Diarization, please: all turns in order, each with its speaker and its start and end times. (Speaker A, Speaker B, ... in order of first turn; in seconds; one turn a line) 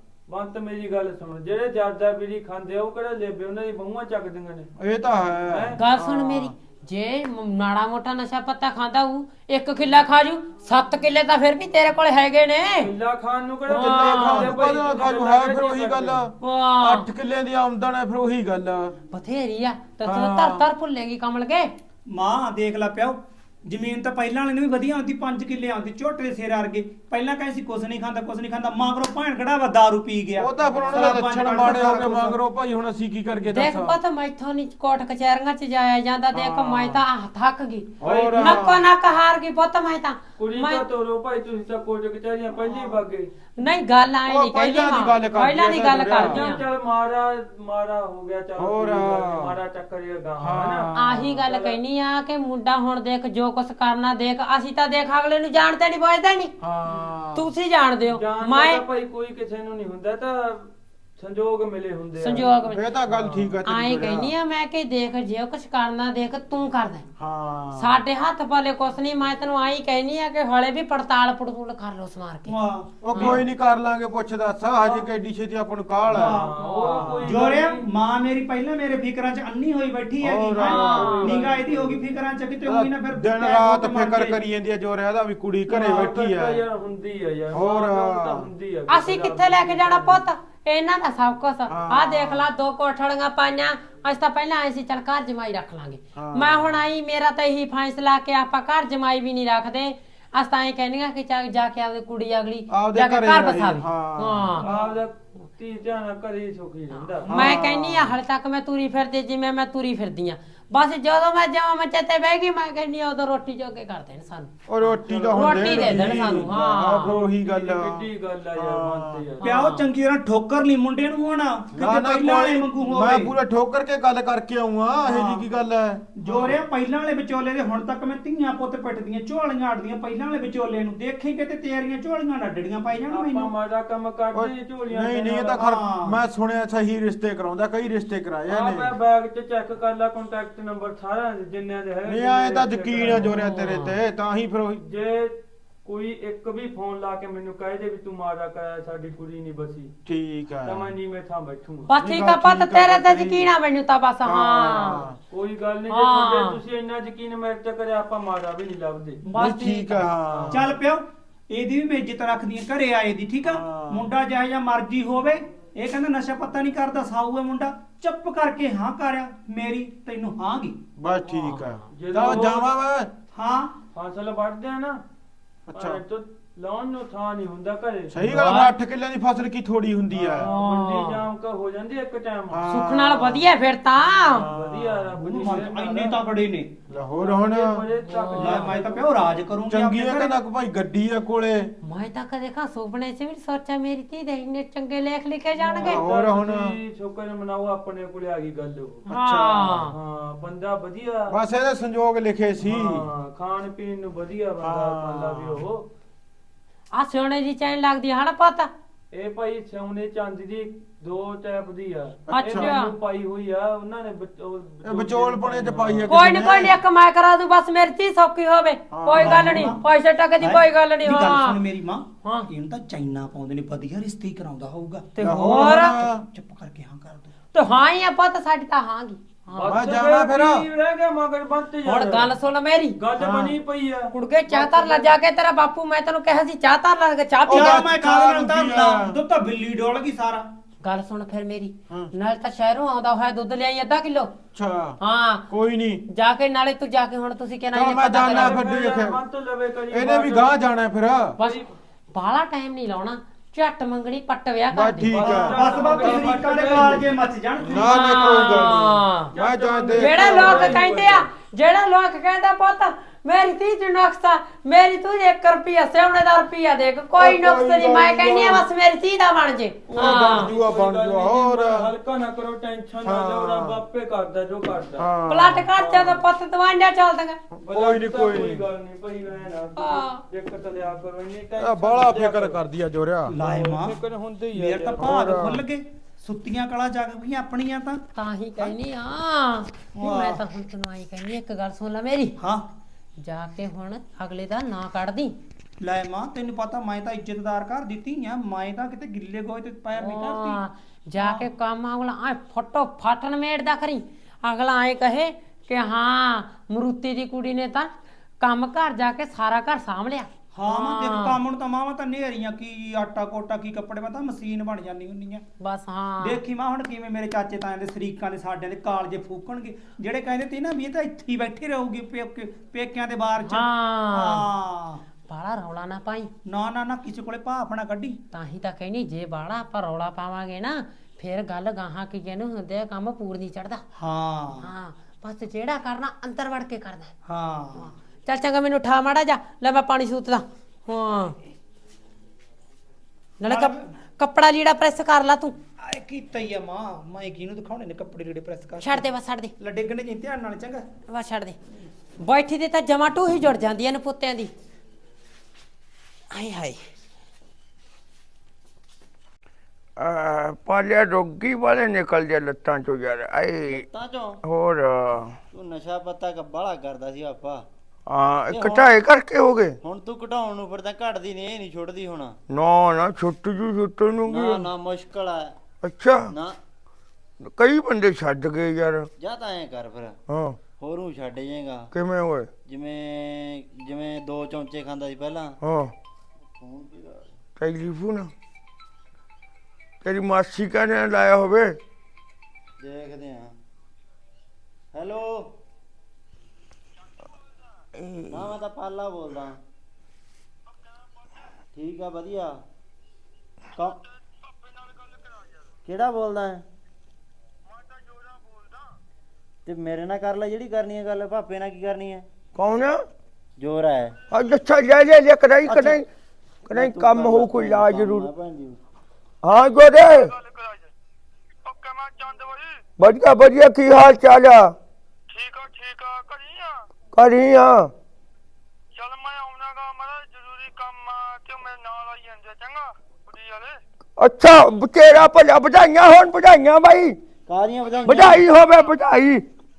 Speaker A: 0.3-4.7
Speaker B: 4.8-6.5
Speaker A: 5.5-5.8
Speaker C: 5.8-12.9
Speaker A: 12.8-16.2
Speaker C: 13.7-14.5
Speaker B: 13.7-18.9
Speaker C: 16.4-17.1
Speaker C: 19.1-21.7
Speaker B: 20.0-20.6
Speaker D: 22.1-32.4
Speaker B: 30.4-34.0
Speaker C: 33.5-40.8
Speaker B: 36.3-37.0
Speaker B: 38.0-38.9
Speaker A: 38.0-38.6
Speaker A: 40.4-43.3
Speaker C: 43.6-46.6
Speaker B: 44.2-46.4
Speaker A: 46.1-50.9
Speaker B: 48.6-49.6
Speaker B: 50.4-51.5
Speaker C: 50.9-56.5
Speaker A: 51.5-51.8
Speaker B: 56.6-57.5
Speaker C: 57.3-58.8
Speaker A: 58.1-62.5
Speaker C: 62.2-62.8
Speaker B: 62.6-64.3
Speaker A: 63.1-63.5
Speaker C: 63.6-67.0
Speaker B: 67.2-68.0
Speaker C: 67.7-72.5
Speaker D: 72.5-73.4
Speaker B: 73.0-77.5
Speaker D: 76.1-84.4
Speaker A: 76.1-77.8
Speaker B: 80.2-81.2
Speaker A: 80.6-82.0
Speaker C: 80.7-81.4
Speaker B: 82.6-86.6
Speaker A: 85.7-90.2
Speaker B: 87.5-88.5
Speaker C: 88.9-104.7
Speaker B: 91.7-92.5
Speaker B: 96.1-96.8
Speaker B: 102.7-105.0
Speaker A: 104.6-107.4
Speaker C: 106.9-114.5
Speaker B: 107.3-108.2
Speaker B: 114.7-119.2
Speaker A: 115.0-119.5
Speaker C: 115.3-117.1
Speaker C: 119.4-119.9
Speaker D: 119.4-123.3
Speaker B: 121.7-126.6
Speaker D: 125.0-125.4
Speaker D: 126.2-133.5
Speaker A: 133.1-135.6
Speaker B: 134.3-138.9
Speaker D: 135.6-136.2
Speaker A: 138.5-143.3
Speaker B: 142.0-144.8
Speaker C: 143.1-143.9
Speaker A: 144.8-149.9
Speaker B: 150.0-150.9
Speaker A: 150.6-151.9
Speaker C: 151.9-155.0
Speaker B: 151.9-153.5
Speaker B: 154.2-155.2
Speaker A: 155.3-159.2
Speaker C: 155.9-156.6
Speaker C: 159.3-160.1
Speaker B: 159.3-160.6
Speaker A: 160.3-160.7
Speaker D: 160.5-170.8
Speaker B: 163.4-164.1
Speaker B: 171.0-173.1
Speaker C: 171.2-171.6
Speaker A: 171.9-172.7
Speaker D: 173.3-173.7
Speaker A: 173.9-175.0
Speaker B: 175.7-176.0
Speaker A: 175.7-178.3
Speaker B: 178.1-180.5
Speaker C: 178.2-178.7
Speaker A: 180.1-182.6
Speaker C: 180.4-181.2
Speaker B: 182.5-183.5
Speaker C: 182.7-184.4
Speaker B: 184.1-185.1
Speaker A: 184.4-186.2
Speaker D: 185.2-186.7
Speaker B: 186.9-187.8
Speaker A: 187.2-189.1
Speaker C: 188.0-188.8
Speaker D: 188.4-190.3
Speaker B: 189.7-191.7
Speaker C: 191.8-196.0
Speaker A: 195.6-199.0
Speaker B: 195.8-196.8
Speaker B: 199.1-199.9
Speaker C: 199.1-199.9
Speaker A: 199.9-201.4
Speaker B: 201.3-203.1
Speaker A: 202.6-205.8
Speaker B: 204.6-205.6
Speaker C: 206.9-208.7
Speaker A: 209.1-216.1
Speaker B: 212.3-212.7
Speaker C: 212.3-212.9
Speaker B: 214.8-216.8
Speaker C: 216.1-221.6
Speaker B: 218.9-219.7
Speaker D: 219.1-219.8
Speaker D: 220.4-227.3
Speaker C: 222.2-222.5
Speaker C: 225.2-226.1
Speaker B: 225.2-226.2
Speaker C: 227.5-229.8
Speaker A: 229.6-232.3
Speaker B: 229.6-230.6
Speaker C: 231.8-232.9
Speaker A: 233.0-235.1
Speaker B: 233.2-233.6
Speaker C: 234.1-237.8
Speaker B: 237.4-239.2
Speaker D: 237.4-240.4
Speaker C: 240.8-244.3
Speaker B: 244.5-246.0
Speaker C: 245.0-245.4
Speaker C: 246.1-248.6
Speaker B: 247.7-249.2
Speaker A: 248.2-250.5
Speaker B: 249.9-251.4
Speaker A: 251.4-251.7
Speaker C: 252.1-255.1
Speaker B: 254.7-257.0
Speaker A: 255.1-257.1
Speaker D: 255.2-258.7
Speaker B: 257.6-260.8
Speaker C: 257.7-259.3
Speaker A: 259.3-261.2
Speaker C: 260.0-270.5
Speaker B: 267.2-268.6
Speaker A: 269.9-275.1
Speaker B: 269.9-271.9
Speaker B: 273.0-273.8
Speaker B: 275.0-275.7
Speaker C: 275.3-277.4
Speaker A: 275.8-276.2
Speaker B: 277.5-278.6
Speaker A: 277.7-282.6
Speaker C: 279.8-280.2
Speaker B: 281.6-283.3
Speaker D: 283.3-284.0
Speaker A: 283.3-285.6
Speaker D: 284.5-288.0
Speaker B: 285.0-285.6
Speaker C: 288.1-292.4
Speaker D: 290.0-290.4
Speaker D: 292.4-292.6
Speaker C: 293.2-295.3
Speaker D: 295.8-300.6
Speaker C: 299.9-307.9
Speaker D: 301.2-301.4
Speaker C: 308.4-311.4
Speaker D: 310.5-315.4
Speaker C: 315.6-316.4
Speaker D: 316.2-325.0
Speaker C: 323.4-324.5
Speaker C: 325.3-326.3
Speaker D: 326.5-328.2
Speaker C: 328.3-333.8
Speaker D: 334.0-334.7
Speaker C: 334.6-337.1
Speaker D: 337.3-337.9
Speaker C: 338.2-341.4
Speaker C: 343.4-345.5
Speaker D: 343.4-343.9
Speaker D: 345.8-349.1
Speaker C: 348.8-349.5
Speaker D: 349.6-350.9
Speaker C: 351.1-351.6
Speaker C: 352.2-354.5
Speaker C: 356.3-356.9
Speaker E: 360.0-363.8
Speaker F: 363.7-364.4
Speaker E: 364.4-365.4
Speaker F: 365.5-367.6
Speaker E: 368.1-369.8
Speaker F: 368.5-368.9
Speaker F: 369.8-372.4
Speaker E: 372.5-374.7
Speaker F: 374.2-375.6
Speaker E: 375.8-376.3
Speaker F: 376.3-376.6
Speaker E: 377.4-379.1
Speaker F: 379.2-380.2
Speaker E: 380.3-380.6
Speaker F: 380.8-381.9
Speaker E: 381.9-382.5
Speaker F: 382.6-385.6
Speaker E: 385.6-385.9
Speaker F: 386.4-387.4
Speaker E: 387.6-388.3
Speaker E: 390.0-391.8
Speaker F: 392.8-393.6
Speaker F: 394.9-395.5
Speaker E: 397.9-398.5
Speaker F: 398.3-399.6
Speaker F: 401.7-402.6
Speaker F: 403.7-404.0
Speaker F: 405.8-406.6
Speaker F: 409.6-412.3
Speaker E: 412.5-413.0
Speaker F: 413.6-414.1
Speaker E: 414.3-416.1
Speaker F: 415.6-416.0
Speaker E: 416.7-418.3
Speaker F: 416.7-418.8
Speaker E: 419.4-420.3
Speaker A: 420.4-420.8
Speaker A: 421.6-422.8
Speaker E: 423.0-424.7
Speaker A: 425.3-426.8
Speaker E: 427.1-427.9
Speaker A: 428.9-433.8
Speaker E: 434.2-437.1
Speaker F: 437.5-438.4
Speaker E: 438.0-439.4